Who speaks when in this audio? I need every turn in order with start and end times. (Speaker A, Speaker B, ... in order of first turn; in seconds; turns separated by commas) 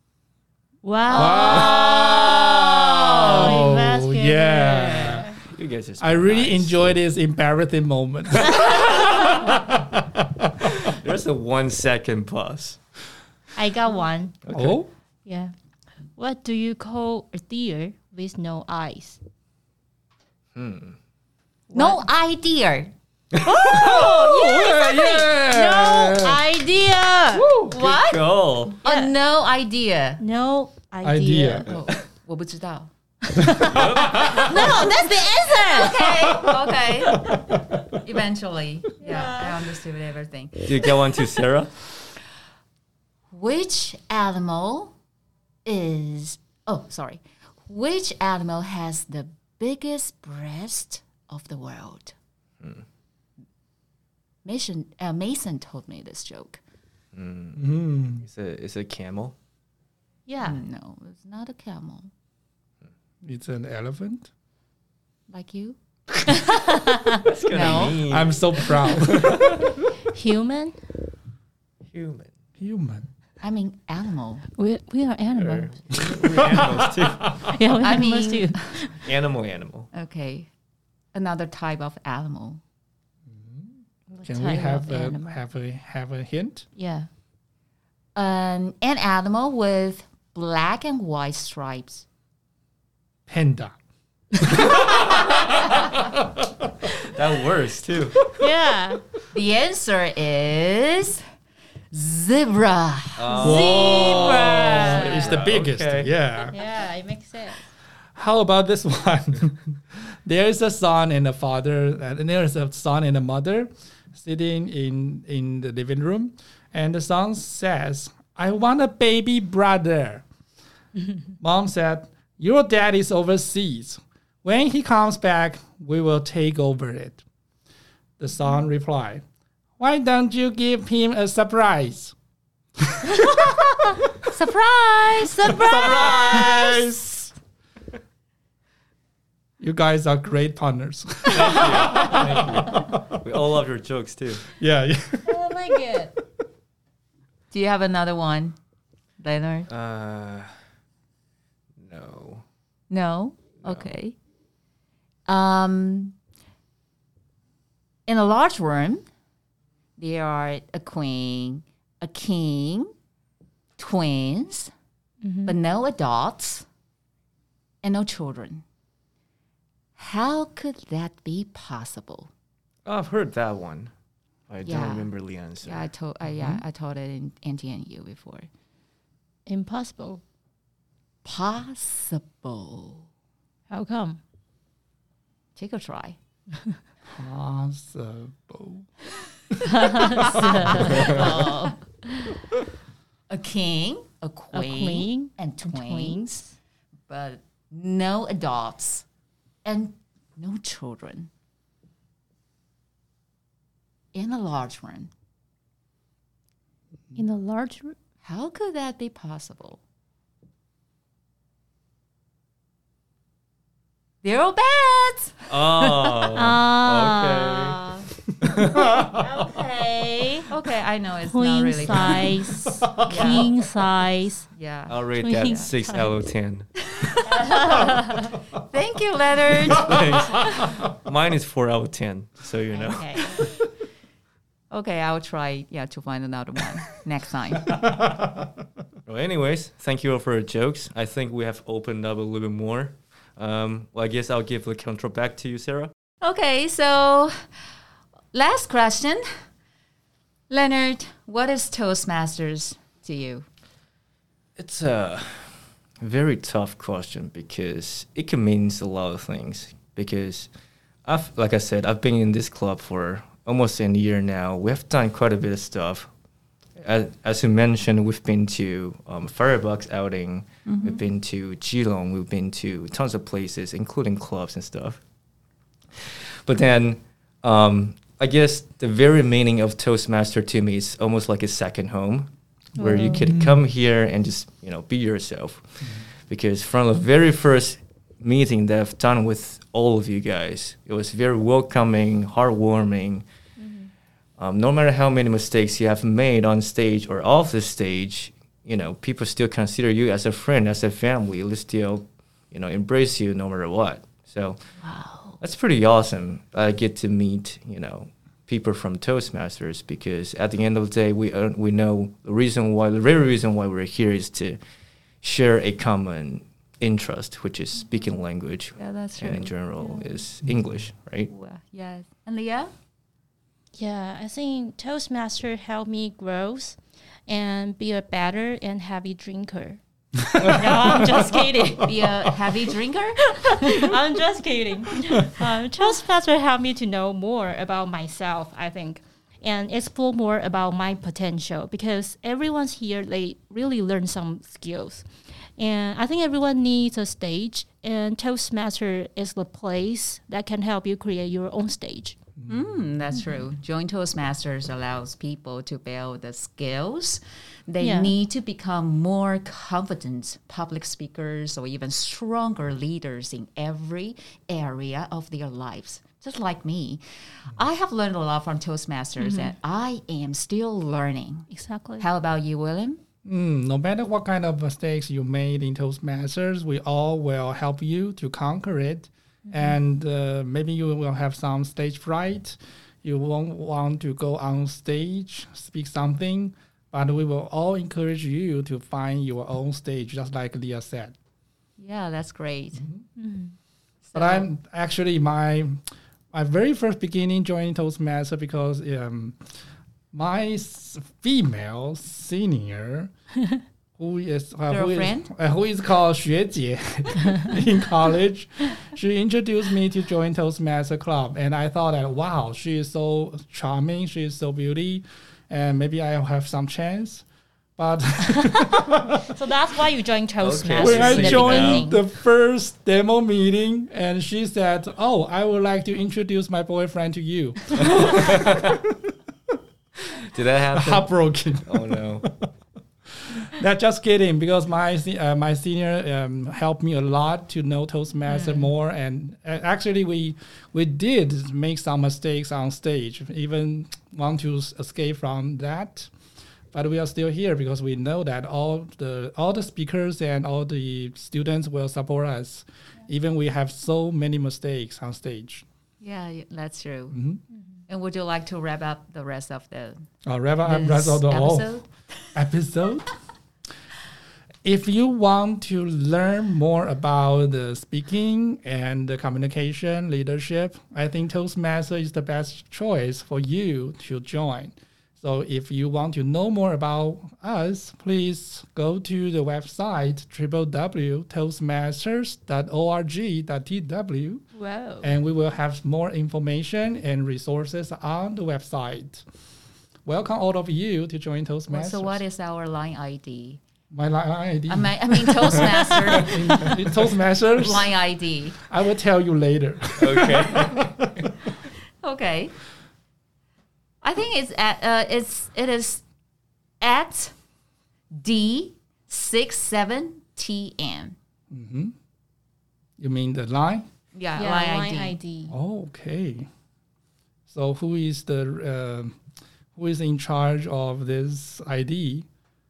Speaker A: 0.8-5.3, Speaker B: 1.1-5.3, Speaker C: 1.4-3.7, Speaker D: 5.4-6.9, Speaker B: 6.0-10.6, Speaker D: 10.6-12.8, Speaker A: 13.6-14.4, Speaker D: 14.4-14.8, Speaker B: 14.5-14.9, Speaker A: 15.2-15.5, Speaker A: 16.1-19.2, Speaker D: 20.5-21.0, Speaker A: 21.7-22.0, Speaker C: 21.7-22.9, Speaker D: 23.3-24.1, Speaker A: 23.4-27.5, Speaker B: 23.5-26.4, Speaker C: 23.7-24.7, Speaker D: 27.4-28.8, Speaker C: 27.7-30.2, Speaker A: 28.8-29.1, Speaker A: 30.2-31.7, Speaker B: 31.0-31.7, Speaker C: 31.6-32.9, Speaker D: 31.7-31.9, Speaker A: 33.2-36.1, Speaker B: 33.4-34.7, Speaker D: 33.6-34.9, Speaker C: 34.5-34.9, Speaker C: 35.6-40.9, Speaker B: 36.4-37.8, Speaker A: 39.0-39.5, Speaker D: 40.6-41.7, Speaker C: 43.3-44.9, Speaker C: 45.6-52.1, Speaker C: 54.4-56.6, Speaker D: 57.1-59.4, Speaker B: 57.5-58.2, Speaker A: 60.3-60.6, Speaker C: 60.4-62.1, Speaker B: 63.2-64.3, Speaker C: 65.3-65.8, Speaker A: 66.3-67.2, Speaker D: 67.2-69.7, Speaker C: 67.5-68.1, Speaker B: 67.5-69.7, Speaker A: 70.1-70.8, Speaker D: 71.9-72.3, Speaker B: 72.6-73.1, Speaker C: 73.4-74.4, Speaker A: 74.5-75.7, Speaker D: 75.3-77.5, Speaker B: 76.2-77.3, Speaker A: 77.5-79.0, Speaker C: 77.8-78.8, Speaker D: 79.0-79.9, Speaker C: 79.9-80.5, Speaker C: 81.1-82.6, Speaker B: 83.4-83.7, Speaker A: 84.1-85.4, Speaker B: 84.2-86.7, Speaker A: 86.8-87.1, Speaker C: 88.1-92.0, Speaker B: 93.3-93.8, Speaker B: 94.4-96.7, Speaker D: 97.0-98.2, Speaker A: 98.4-99.0, Speaker C: 99.3-101.2, Speaker C: 101.9-105.4, Speaker D: 103.2-106.1, Speaker A: 103.3-104.9, Speaker B: 103.4-106.5, Speaker A: 106.5-107.7, Speaker B: 108.1-120.2, Speaker B: 121.4-127.2, Speaker B: 128.2-129.2, Speaker B: 129.8-132.1, Speaker B: 132.8-133.7, Speaker C: 134.3-136.9, Speaker A: 135.2-136.6, Speaker B: 135.5-137.3, Speaker B: 139.6-143.2, Speaker D: 141.3-144.4, Speaker B: 144.5-145.8, Speaker A: 145.2-146.1, Speaker C: 147.5-148.6, Speaker C: 149.2-149.7, Speaker D: 149.7-150.5, Speaker D: 151.8-152.4, Speaker C: 152.9-154.1, Speaker D: 153.6-153.9, Speaker C: 155.3-156.2, Speaker C: 158.1-159.0, Speaker C: 160.0-162.9, Speaker C: 163.8-164.7, Speaker A: 165.2-165.6, Speaker C: 165.4-166.7, Speaker C: 167.8-168.6, Speaker C: 169.9-172.3, Speaker D: 172.9-173.9, Speaker D: 174.5-175.9, Speaker C: 174.6-175.1, Speaker C: 175.6-178.5, Speaker B: 176.3-176.6, Speaker A: 179.5-180.2, Speaker C: 181.2-183.0, Speaker A: 183.7-184.2, Speaker C: 185.5-186.2, Speaker B: 187.1-188.9, Speaker A: 189.6-192.4, Speaker B: 189.6-190.9, Speaker C: 190.2-191.8, Speaker D: 190.9-191.2, Speaker C: 193.3-196.4, Speaker A: 194.5-196.5, Speaker C: 197.1-199.0, Speaker C: 199.6-201.3, Speaker C: 204.1-205.1, Speaker A: 207.1-207.9, Speaker C: 208.2-209.8, Speaker C: 214.2-216.3, Speaker D: 215.5-217.8, Speaker A: 216.3-218.0, Speaker D: 218.4-218.9, Speaker B: 218.9-219.2, Speaker A: 218.9-220.5, Speaker C: 220.5-222.4, Speaker A: 221.3-224.5, Speaker B: 222.9-223.3, Speaker C: 223.0-223.5, Speaker C: 224.5-225.7, Speaker D: 224.9-226.7, Speaker A: 225.2-226.1, Speaker C: 226.9-230.7, Speaker A: 227.2-228.3, Speaker D: 229.7-233.5, Speaker A: 232.7-233.5, Speaker C: 234.7-237.9, Speaker B: 237.7-238.5, Speaker D: 239.1-245.9, Speaker C: 246.2-247.3, Speaker C: 248.3-249.2, Speaker C: 250.5-253.4, Speaker D: 254.6-260.5, Speaker D: 261.0-266.1, Speaker D: 266.8-275.0, Speaker C: 270.6-271.0, Speaker D: 276.0-293.2, Speaker A: 282.8-283.3, Speaker B: 282.8-283.6, Speaker A: 293.6-293.9, Speaker D: 294.4-304.6, Speaker C: 304.8-305.4, Speaker D: 305.4-314.6, Speaker D: 315.2-321.3, Speaker C: 318.8-319.5, Speaker C: 321.3-322.7, Speaker A: 323.8-329.8, Speaker B: 330.2-331.2, Speaker A: 330.4-332.2, Speaker C: 331.8-333.9, Speaker A: 333.3-345.0, Speaker A: 345.6-352.1, Speaker B: 352.4-352.8, Speaker C: 352.5-371.5, Speaker A: 357.8-358.1, Speaker A: 369.2-369.5, Speaker A: 371.5-372.0, Speaker C: 372.0-373.0, Speaker B: 373.2-391.1, Speaker A: 379.4-379.7, Speaker C: 391.8-392.8, Speaker A: 393.2-393.5, Speaker C: 394.0-394.5, Speaker B: 394.1-395.8, Speaker B: 396.3-399.4, Speaker B: 400.1-403.1, Speaker B: 404.0-417.2, Speaker C: 404.7-405.3, Speaker B: 417.8-419.2, Speaker A: 418.3-422.0, Speaker D: 420.4-421.9, Speaker B: 420.8-429.0, Speaker D: 427.7-428.9, Speaker D: 430.1-431.1, Speaker B: 430.7-432.5, Speaker D: 431.6-432.2, Speaker B: 433.2-446.1, Speaker A: 438.3-438.7, Speaker B: 446.7-455.6, Speaker C: 456.0-457.2, Speaker B: 457.1-457.4, Speaker C: 457.9-460.0, Speaker B: 460.2-461.7, Speaker C: 460.6-461.9, Speaker B: 462.3-463.1, Speaker B: 464.6-484.4, Speaker A: 484.6-485.1, Speaker B: 485.0-489.2, Speaker B: 490.1-492.2, Speaker C: 491.7-493.6, Speaker B: 493.9-497.9, Speaker C: 494.7-496.8, Speaker C: 497.5-498.6, Speaker B: 498.6-501.2, Speaker D: 500.0-501.1, Speaker C: 502.0-502.5, Speaker C: 504.0-506.0, Speaker C: 506.8-507.4, Speaker C: 508.1-511.1, Speaker B: 511.5-511.9, Speaker B: 513.0-513.9, Speaker C: 514.1-515.1, Speaker A: 514.4-515.5, Speaker B: 515.5-516.5, Speaker B: 517.5-519.2, Speaker B: 519.7-522.2